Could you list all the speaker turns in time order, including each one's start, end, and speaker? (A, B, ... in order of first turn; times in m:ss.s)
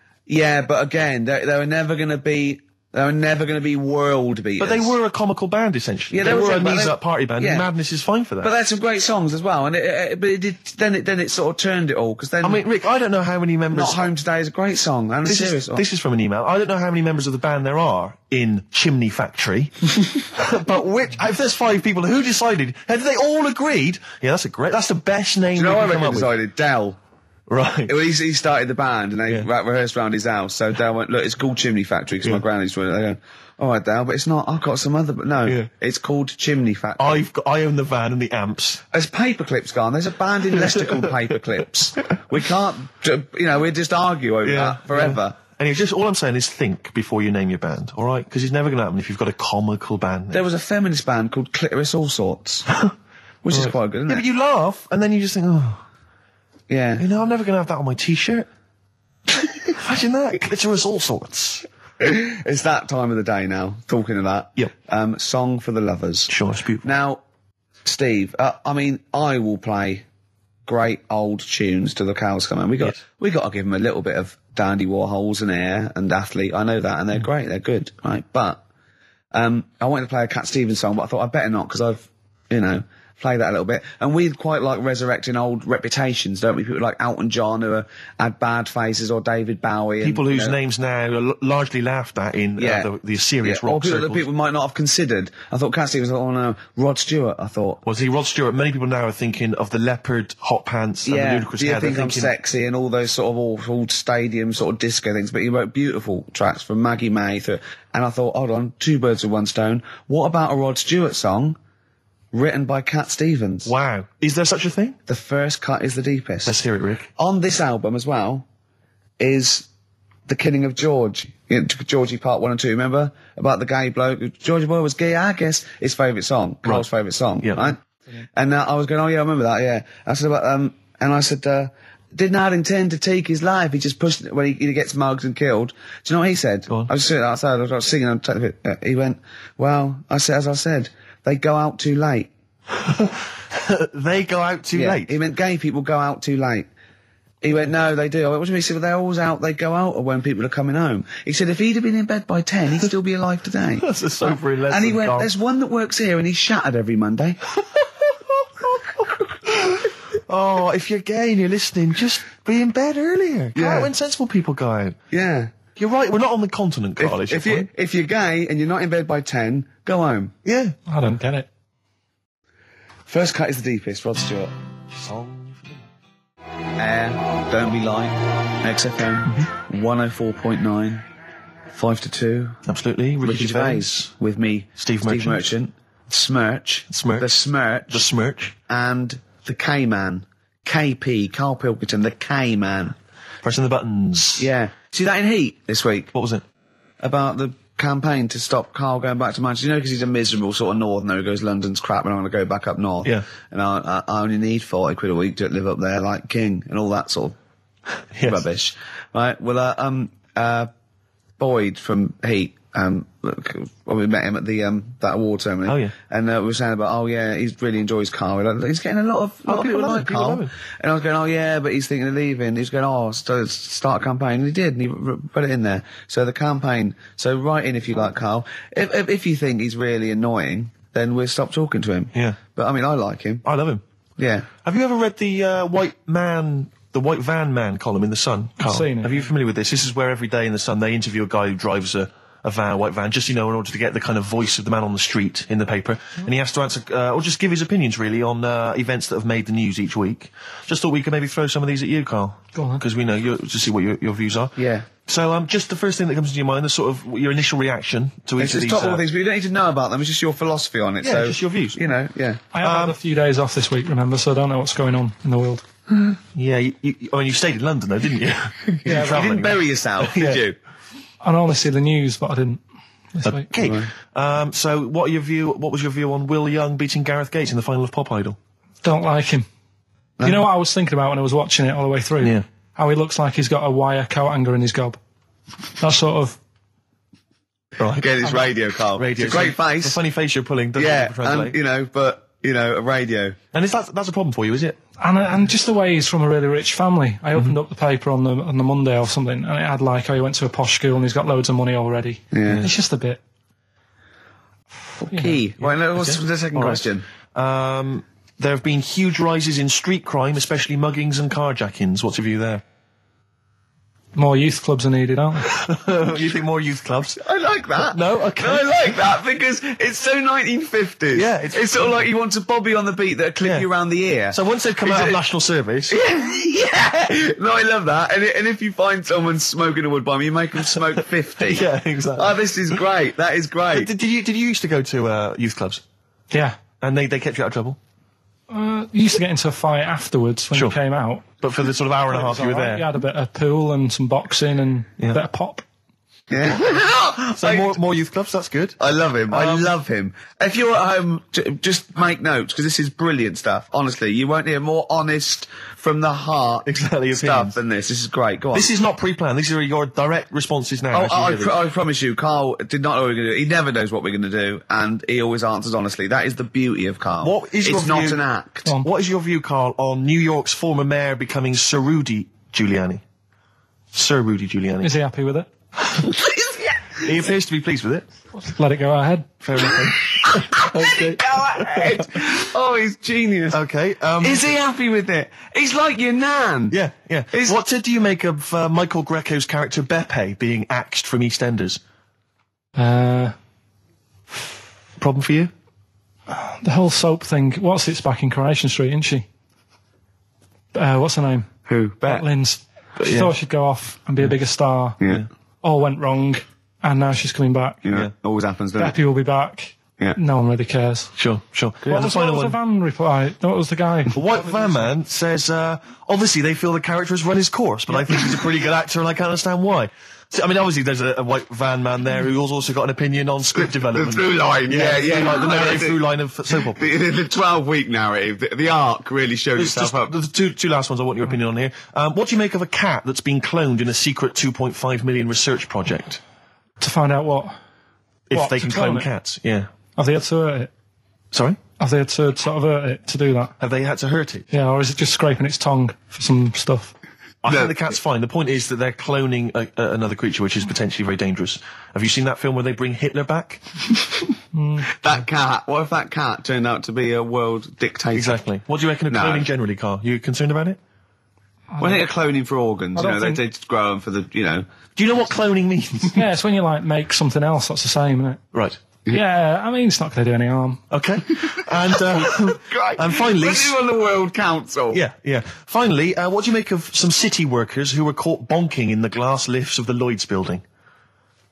0:00.3-0:05.0 A
0:04.6-0:08.5 B
0:06.1-0:07.7 A
0:08.4-0:12.6 A
0:12.4-0:14.1 B
0:13.7-0:15.8 A
0:15.2-0:26.3 B
0:25.5-0:27.0 A
0:27.5-0:27.9 B
0:27.9-0:37.2 A
0:37.0-0:38.8 B
0:38.9-0:45.4 A
0:40.5-0:41.3 B
0:44.4-0:50.4 B
0:50.3-0:52.7 A
0:53.4-0:54.2 A
0:53.5-0:55.8 B
0:56.7-0:57.0 A
0:57.0-0:58.5 B
0:59.4-1:01.6 B
1:02.0-1:06.3 A
1:06.3-1:06.9 B
1:06.8-1:07.2 A
1:07.8-1:10.0 A
1:10.7-1:18.6 A
1:19.3-1:30.6 A
1:30.0-1:34.2 B
1:32.6-1:32.9 A
1:33.4-1:37.8 A
1:37.8-1:42.3 B
1:41.0-1:51.6 A
1:52.3-1:53.7 A
1:53.6-1:55.0 B
1:55.1-1:56.6 A
1:56.5-1:57.1 B
1:57.2-1:58.5 A
1:59.2-1:59.7 A
2:00.3-2:07.8 A
2:07.4-2:07.7 B
2:08.3-2:22.3 A
2:22.7-2:25.2 B
2:24.8-2:26.7 A
2:27.4-2:37.4 A
2:33.8-2:35.3 B
2:38.1-2:45.0 B
2:43.6-2:43.9 A
2:45.1-2:45.5 A
2:45.8-2:47.7 B
2:47.0-2:50.4 A
2:50.4-2:50.8 B
2:50.9-2:51.5 C
2:53.1-2:54.5 A
2:55.0-2:55.8 B
2:56.8-3:01.0 A
3:01.7-3:02.6 A
3:02.7-3:04.1 B
3:03.2-3:08.1 A
3:04.8-3:05.4 B
3:06.9-3:07.3 B
3:07.9-3:08.6 B
3:08.7-3:13.0 A
3:13.4-3:14.5 B
3:14.4-3:16.1 A
3:16.1-3:16.4 B
3:17.0-3:27.4 A
3:28.1-3:28.4 B
3:28.2-3:30.7 A
3:31.4-3:53.4 A
3:35.7-3:35.9 B
3:39.5-3:40.5 B
3:52.1-3:52.4 B
3:53.4-3:53.8 B
3:54.2-3:54.5 A
3:54.6-4:19.0 B
3:58.6-3:59.2 C
4:12.6-4:12.8 C
4:14.6-4:14.9 A
4:18.4-4:22.4 A
4:21.0-4:21.8 B
4:22.5-4:25.6 C
4:22.6-4:23.0 B
4:26.4-4:30.4 B
4:28.8-4:30.6 A
4:28.9-4:29.2 C
4:31.2-4:32.6 C
4:33.1-4:33.5 C
4:33.2-4:38.4 B
4:33.6-4:33.9 A
4:38.8-4:39.5 C
4:40.2-4:45.0 C
4:45.8-4:46.4 C
4:47.8-4:48.4 B
4:48.0-4:50.0 A
4:49.0-4:51.6 B
4:50.8-4:53.4 A
4:53.5-4:54.8 B
4:55.0-5:03.2 C
5:02.3-5:02.7 A
5:05.0-5:07.0 A
5:05.1-5:05.4 C
5:05.6-5:06.8 B
5:07.4-5:12.6 B
5:14.2-5:15.5 C
5:15.5-5:17.2 B
5:17.2-5:25.2 A
5:17.8-5:18.7 B
5:21.2-5:22.0 B
5:24.3-5:26.0 B
5:25.9-5:33.9 A
5:30.7-5:32.4 B
5:33.7-5:35.8 B
5:36.3-5:36.6 C
5:36.8-5:37.8 B
5:38.5-5:41.3 C
5:41.4-5:42.9 B
5:42.1-5:45.6 C
5:46.3-5:47.8 A
5:47.3-5:48.8 B
5:48.8-5:58.7 A
5:49.3-5:49.7 B
5:56.6-5:57.6 B
5:58.5-6:01.6 B
6:00.9-6:08.7 A
6:07.2-6:13.0 B
6:13.9-6:14.9 B
6:14.8-6:15.5 C
6:16.0-6:17.0 A
6:17.0-6:18.1 B
6:18.4-6:19.3 C
6:19.4-6:22.1 B
6:20.0-6:23.6 A
6:23.5-6:24.5 B
6:24.2-6:26.8 A
6:26.7-6:31.8 B
6:27.3-6:27.6 A
6:32.8-6:33.4 C
6:35.0-6:35.5 B
6:36.3-6:39.3 C
6:40.7-6:41.5 C
6:41.7-6:42.2 A
6:42.1-6:45.0 C
6:43.0-6:43.3 B
6:45.0-6:45.2 A
6:45.6-6:47.8 C
6:47.8-6:49.0 A
6:48.8-6:51.1 C
6:51.2-6:52.6 B
6:51.9-6:54.7 C
6:54.1-7:06.8 B
7:03.6-7:06.0 A
7:06.7-7:10.1 A
7:09.6-7:16.2 B
7:16.8-7:17.6 C
7:18.3-7:19.7 B
7:18.3-7:19.1 C
7:20.0-7:20.7 C
7:21.3-7:21.6 B
7:21.8-7:23.5 C
7:23.6-7:24.5 B
7:24.5-7:26.9 C
7:27.4-7:33.6 B
7:27.5-7:27.7 A
7:34.5-7:34.9 C
7:34.9-7:38.4 A
7:38.1-7:40.8 B
7:39.1-7:39.5 A
7:41.7-7:42.0 C
7:41.8-7:44.7 A
7:43.0-7:43.4 C
7:45.0-7:46.3 B
7:46.2-7:48.4 C
7:48.5-7:48.8 B
7:49.1-7:50.8 C
7:50.9-7:53.8 B
7:52.0-7:55.0 A
7:54.9-8:00.6 B